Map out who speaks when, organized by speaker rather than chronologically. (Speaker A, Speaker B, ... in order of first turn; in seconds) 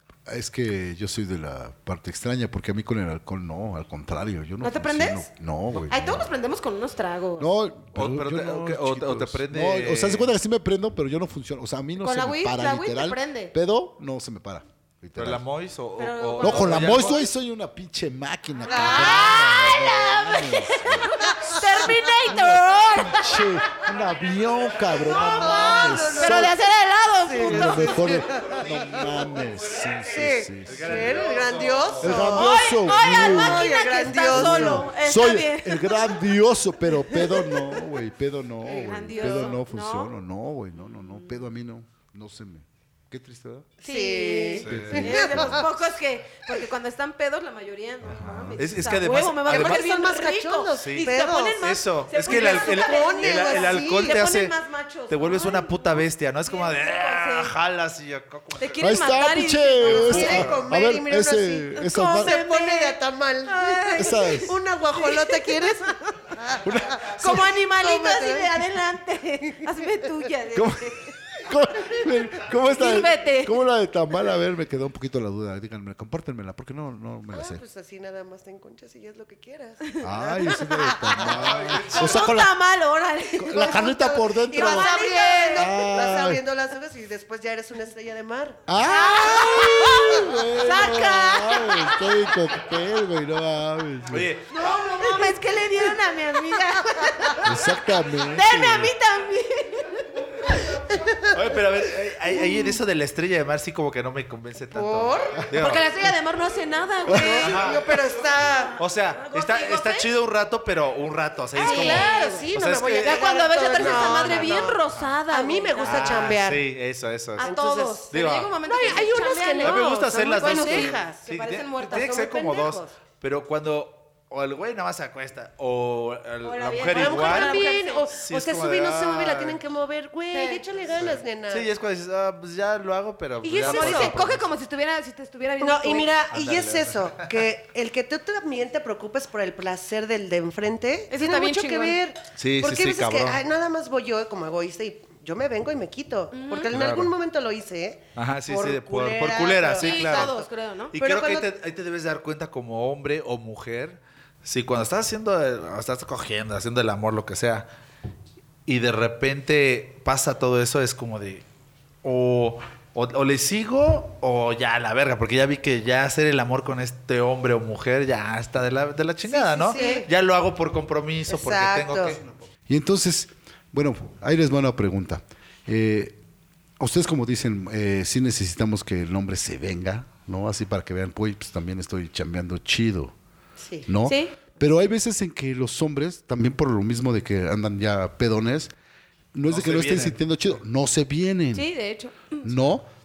Speaker A: 0.3-6.3, 7.4-15.4, 16.4-26.6, 27.4-31.2, 32.0-43.7, 44.7-45.6, 48.1-48.6, 58.8-62.4, 64.0-64.5, 66.6-67.5, 70.5-77.6, 80.0-82.6, 83.4-84.9, 85.5-86.4, 88.7-94.3, 97.4-98.9, 172.7-176.2, 176.8-183.1, 183.8-188.7, 189.3-191.7, 192.4-192.9
Speaker B: 4.6-7.5, 12.0-13.5, 16.0-17.2, 18.7-23.9, 25.5-28.2, 32.0-36.2, 37.0-37.6, 38.6-40.1, 40.9-41.4, 43.8-57.5, 58.6-60.5, 61.8-65.9, 67.2-71.2, 72.7-73.6, 81.9-85.8, 88.8-92.3, 94.5-100.5, 105.5-107.6, 109.1-110.1, 111.6-112.5, 113.0-116.3, 117.4-122.2, 126.4-128.1, 130.3-130.6, 133.4-136.1, 141.1-142.0, 146.3-146.7, 149.8-150.9, 169.7-170.1, 184.1-184.3, 191.5-192.6
Speaker C: 7.9-10.3, 15.2-17.2, 30.7-32.1, 44.6-45.1, 48.1-49.9, 50.8-54.5, 55.1-58.8, 59.9-60.6, 81.3-82.3, 94.1-94.8, 101.3-105.9, 107.4-107.8, 108.8-115.1, 115.8-117.5, 118.1-119.0, 119.6-127.6, 128.2-129.6, 130.9-134.4, 136.3-137.4, 142.4-143.4, 146.7-147.1, 148.2-150.4, 150.9-157.7, 158.7-161.4, 162.0-172.4, 189.5-190.2
Speaker D: 18.7-19.6, 21.2-21.9, 25.0-26.5, 27.2-28.6, 30.1-34.9, 39.1-39.5, 43.8-45.7, 49.5-54.2, 59.9-68.7, 69.5-69.9, 77.3-81.3, 83.5-88.6, 89.3-90.2, 94.6-96.0, 100.9-101.3, 104.7-105.4, 107.1-108.8, 111.5-116.7, 117.4-118.1, 118.6-121.2, 121.8-122.9, 126.9-131.7, 133.5-134.2, 135.6-151.5, 169.3-170.1, 171.3-172.2, 183.6-183.9